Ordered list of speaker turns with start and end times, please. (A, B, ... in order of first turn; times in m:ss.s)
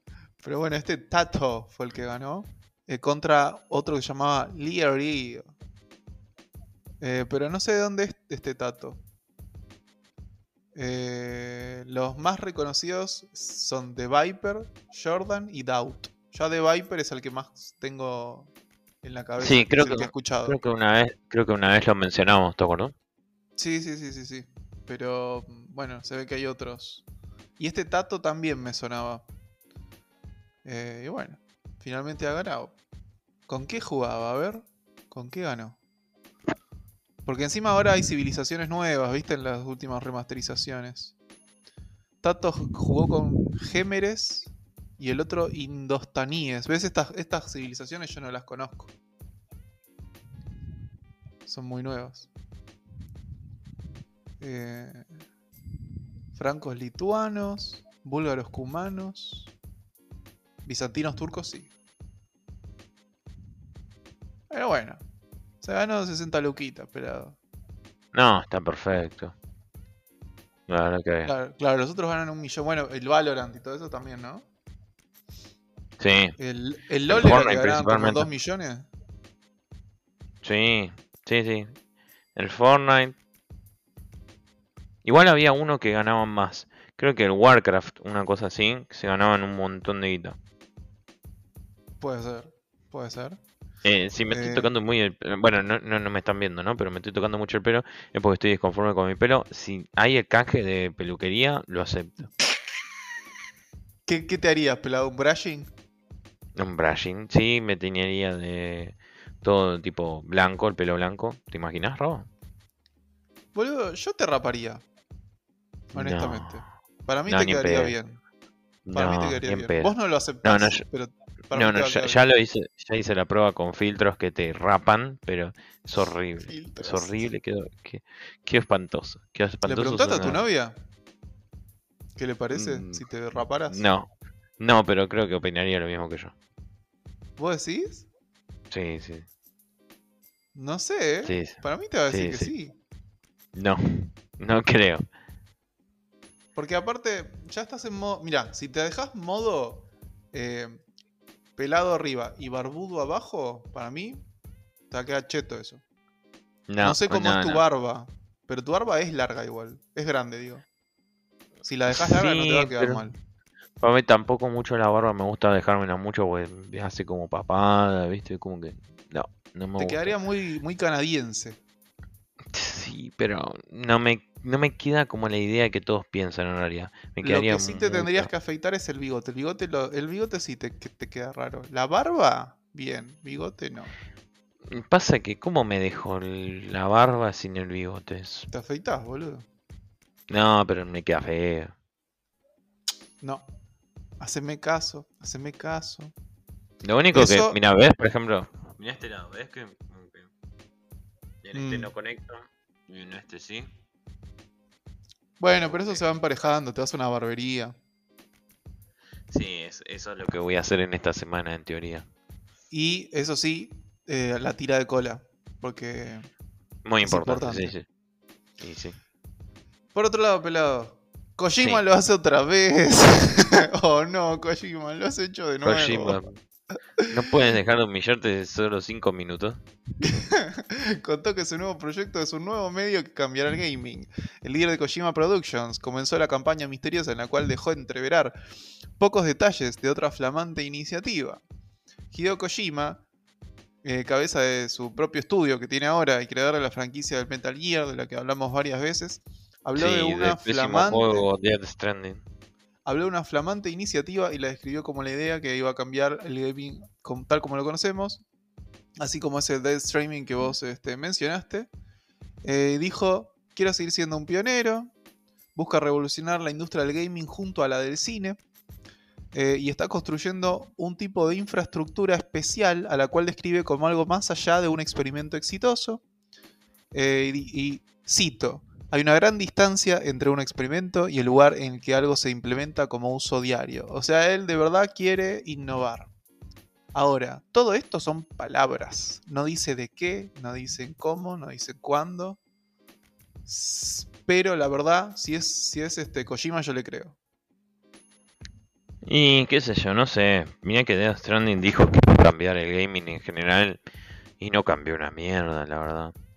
0:00.4-0:05.5 A
0:07.0-0:09.0 A
0:10.7-0:18.5 A
0:19.0-0:20.6 A
0:19.4-0:22.9 B
0:23.6-0:27.0 A
0:27.6-0:29.2 A
0:30.6-0:32.8 A
0:33.5-0:35.8 A
0:37.2-0:41.1 A
0:42.2-0:48.9 A
0:51.4-0:52.3 A
0:54.4-0:55.1 A
0:56.3-0:59.5 A
1:00.6-1:01.7 A
1:04.5-1:05.0 A
1:05.6-1:07.4 A
1:08.1-1:09.3 B
1:10.7-1:11.3 B
1:11.2-1:14.5 A
1:16.0-1:16.3 B
1:16.4-1:18.9 A
1:17.1-1:18.3 B
1:20.4-1:21.7 B
1:22.4-1:23.2 B
1:25.0-1:30.4 B
1:32.0-1:33.4 A
1:33.8-1:42.3 B
1:34.3-1:34.7 A
1:44.0-1:45.7 A
1:46.6-1:52.3 B
1:53.5-1:54.8 A
1:55.9-1:56.6 B
1:55.9-1:58.2 A
1:57.3-1:57.9 B
1:58.8-1:59.9 B
1:58.9-2:02.2 A
2:00.4-2:00.8 B
2:01.5-2:10.4 B
2:06.4-2:07.2 A
2:09.6-2:10.8 A
2:12.2-2:13.8 A
2:12.5-2:13.0 B
2:13.7-2:16.3 B
2:17.4-2:18.1 A
2:18.7-2:19.2 B
2:20.5-2:22.7 A
2:21.2-2:22.5 B
2:23.5-2:25.0 B
2:26.5-2:30.8 A
2:31.6-2:34.2 A
2:34.9-2:35.8 A
2:36.7-2:37.6 B
2:36.8-2:40.6 A
2:41.6-2:43.1 A
2:41.9-2:43.0 B
2:43.8-2:50.1 B
2:49.8-2:51.6 A
2:52.5-2:58.3 B
2:57.2-3:03.9 A
3:04.7-3:08.5 B
3:08.5-3:09.4 A
3:10.3-3:11.7 B
3:13.2-3:13.5 A
3:14.2-3:16.1 A
3:16.8-3:20.3 B
3:17.1-3:17.6 A
3:21.4-3:23.7 B
3:21.5-3:21.9 A
3:25.4-3:27.8 A
3:25.6-3:26.0 B
3:29.3-3:32.0 B
3:32.7-3:36.3 A
3:36.8-3:37.8 B
3:37.0-3:37.7 A
3:38.6-3:39.0 B
3:39.9-3:46.2 A
3:45.6-3:46.4 B
3:47.1-3:49.6 B
3:50.0-3:58.4 A
3:59.0-4:01.4 A
4:02.1-4:03.0 A
4:03.8-4:11.3 A
4:09.7-4:12.2 B
4:12.8-4:18.2 A
4:19.0-4:21.7 A
4:22.4-4:24.9 A
4:25.6-4:28.4 A
4:29.3-4:36.0 A
4:36.9-4:46.1 A
4:46.9-4:52.4 A
4:53.4-4:57.2 A
4:59.0-5:03.8 B
5:04.4-5:06.1 B